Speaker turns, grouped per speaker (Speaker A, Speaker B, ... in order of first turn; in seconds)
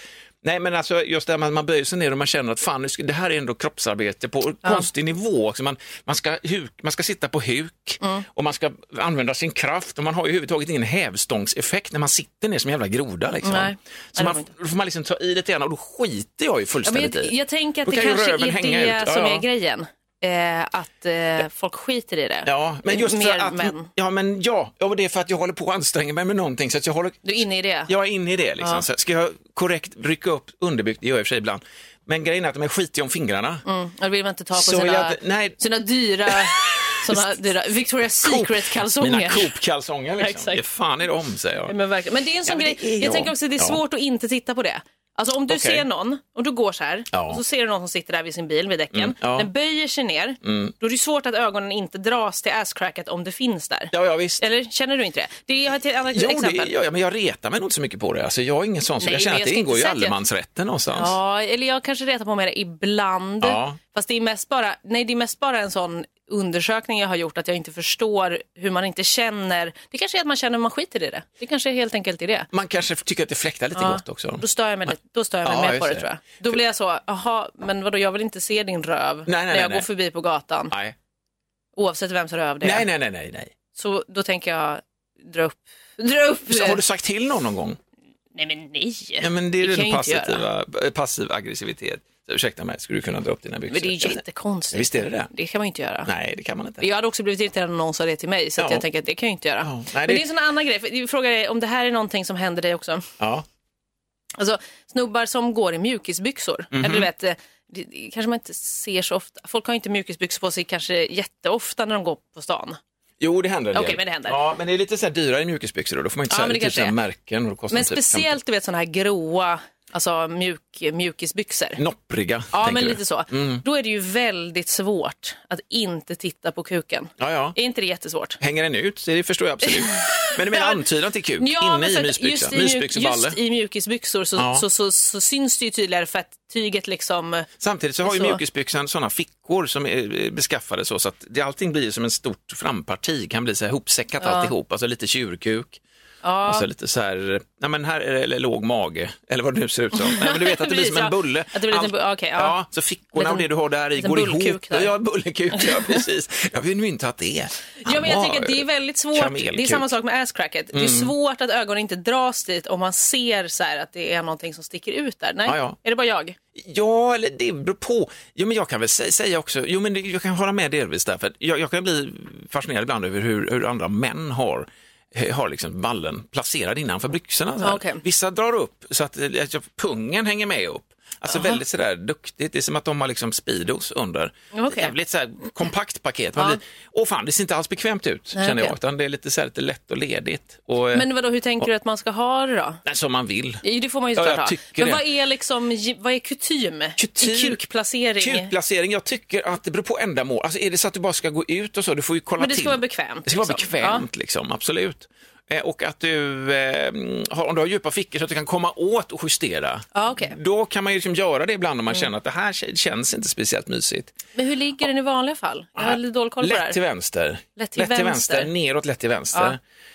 Speaker A: 0.4-17.3, 17.8-19.4, 22.4-27.2, 27.9-33.6, 34.5-35.6, 36.3-37.2, 38.1-41.7, 42.5-43.8, 45.5-45.8, 47.1-47.4, 48.9-49.5, 50.4-50.7, 53.9-54.4, 56.1-61.1, 63.4-63.8, 72.5-74.9, 75.4-76.1, 79.2-79.9, 82.6-83.5, 86.5-87.8, 89.2-95.3, 96.0-96.8, 98.6-98.8, 99.6-100.2, 103.2-103.4, 106.7-107.1, 113.2-118.3, 121.8-123.6, 127.2-127.5, 128.4-133.4, 134.4-134.6, 137.6-145.8, 146.4-159.9, 160.7-161.1, 165.4-165.8, 166.5-191.1, 192.8-193.6, 194.2-195.0, 197.0-197.6, 198.2-214.1, 215.8-219.6
Speaker B: 13.4-14.5, 16.9-23.9, 27.2-27.9, 33.6-39.5, 40.2-40.6, 41.7-56.7, 59.0-60.1, 60.9-72.5, 73.8-80.7, 81.8-82.8, 83.7-86.8, 88.3-90.4, 93.7-96.1, 96.8-103.1, 104.4-112.8, 113.7-114.4, 116.3-116.9, 117.7-121.8, 122.5-128.4, 129.7-130.8, 131.4-137.5, 138.0-138.4, 144.2-144.5, 146.2-146.7, 149.9-152.6, 153.1-154.9, 155.5-156.0, 157.8-166.4, 177.6-178.0, 181.3-181.6, 184.5-184.9, 188.3-188.7, 190.9-192.8, 193.6-198.5, 202.4-204.0, 209.9-210.3, 214.3-216.8, 217.6-218.5